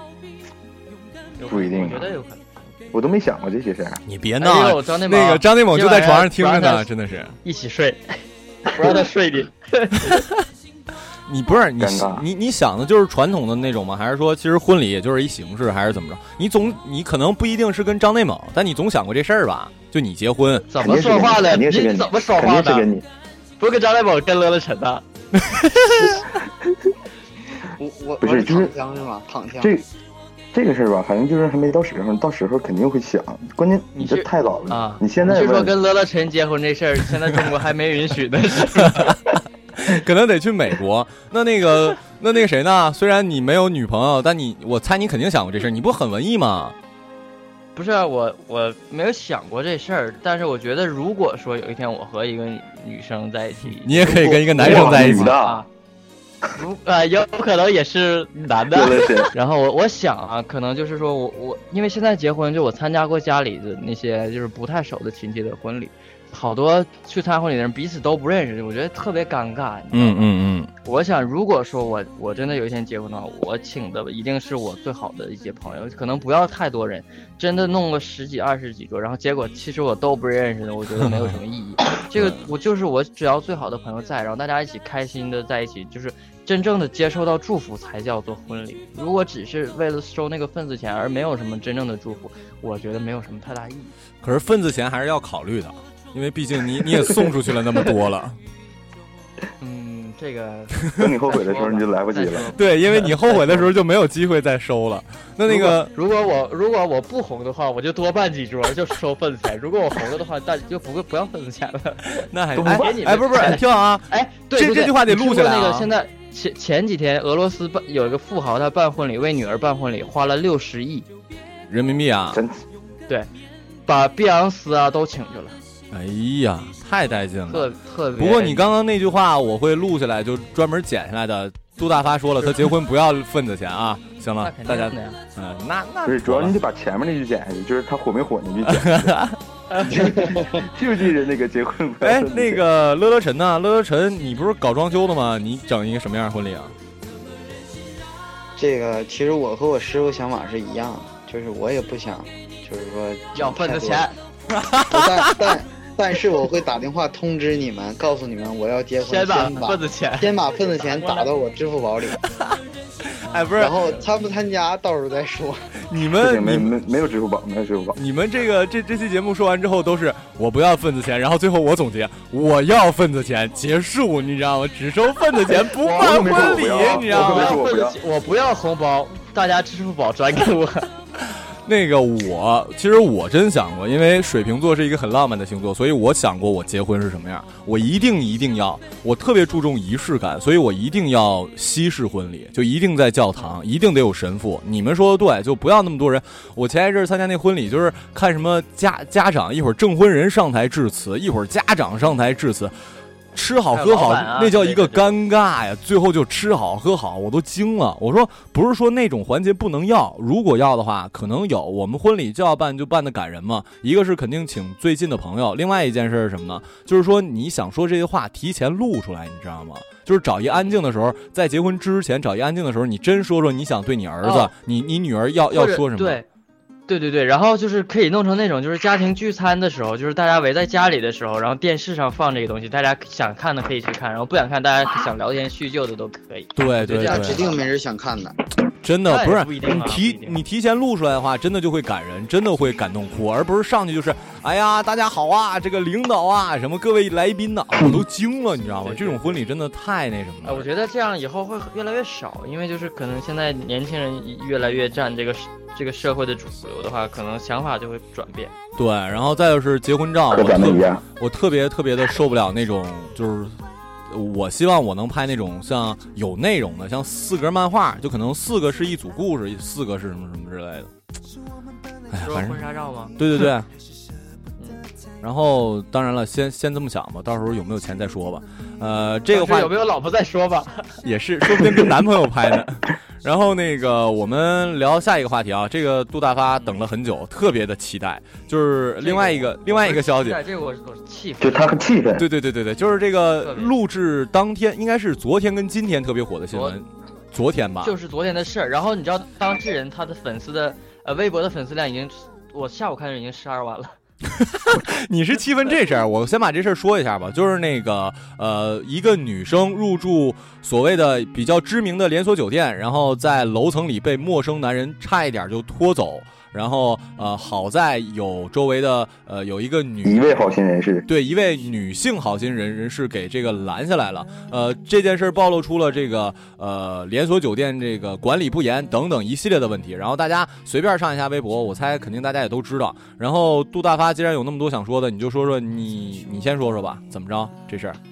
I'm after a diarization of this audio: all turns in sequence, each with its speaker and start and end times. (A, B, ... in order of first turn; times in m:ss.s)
0:01.4-0:02.7 A
0:01.4-0:02.1 B
0:02.9-0:04.0 B
0:04.0-0:07.3 C
0:04.4-0:06.9 A
0:07.4-0:10.2 A
0:11.3-0:20.7 C
0:11.8-0:12.2 B
0:20.7-0:22.9 A
0:20.8-0:23.0 B
0:23.6-0:25.0 A
0:25.4-0:26.1 C
0:27.8-0:29.7 D
0:28.2-0:28.7 B
0:29.6-0:29.9 B
0:30.5-0:35.7 B
0:33.9-0:39.2 A
0:39.7-0:46.7 C
0:47.8-0:55.7 A
0:53.8-0:55.3 C
0:54.1-0:55.6 B
0:56.5-1:10.2 A
0:58.7-0:59.3 B
1:09.9-1:10.7 C
1:10.8-1:33.9 A
1:21.0-1:21.4 C
1:22.1-1:22.5 C
1:34.2-1:38.4 C
1:39.6-1:43.7 A
1:41.0-1:42.5 B
1:42.6-1:45.9 C
1:45.5-2:01.1 A
1:52.3-1:55.9 C
2:01.7-2:02.4 C
2:02.3-2:02.6 B
2:03.9-2:05.6 A
2:05.9-2:16.5 C
2:07.5-2:08.7 A
2:14.4-2:15.2 A
2:16.0-2:19.2 B
2:18.6-2:19.4 C
2:19.7-2:20.2 A
2:19.9-2:22.6 B
2:22.0-2:26.7 C
2:28.6-2:34.1 D
2:33.3-2:34.1 A
2:34.6-2:35.3 C
2:34.8-2:42.2 D
2:39.0-2:41.3 A
2:43.2-2:43.7 C
2:43.6-2:45.7 D
2:45.9-2:46.7 C
2:46.2-2:48.0 B
2:48.0-2:57.6 C
2:55.6-2:58.0 B
2:56.3-3:00.9 A
3:01.6-3:22.7 C
3:23.3-3:46.2 C
3:23.7-3:25.2 A
3:40.4-3:40.7 A
3:44.2-3:44.5 A
3:45.5-3:46.2 A
3:46.9-3:57.6 A
3:56.6-3:57.4 C
3:57.0-3:58.4 D
3:58.8-4:10.7 C
3:59.1-4:00.4 A
4:08.8-4:09.4 A
4:10.4-4:18.5 A
4:18.8-4:30.9 C
4:20.3-4:21.0 B
4:32.1-4:32.6 C
4:32.2-4:33.1 A
4:33.2-4:33.7 C
4:34.6-4:34.8 A
4:35.2-4:39.7 C
4:39.3-4:40.9 A
4:41.0-4:50.4 C
4:41.6-4:41.8 B
4:49.0-4:51.8 A
4:51.4-4:52.3 B
4:52.2-4:57.9 C
4:53.4-4:53.7 A
4:56.5-4:56.8 A
4:57.8-5:04.0 A
5:04.4-5:20.3 C
5:20.0-5:21.1 B
5:21.1-5:38.0 C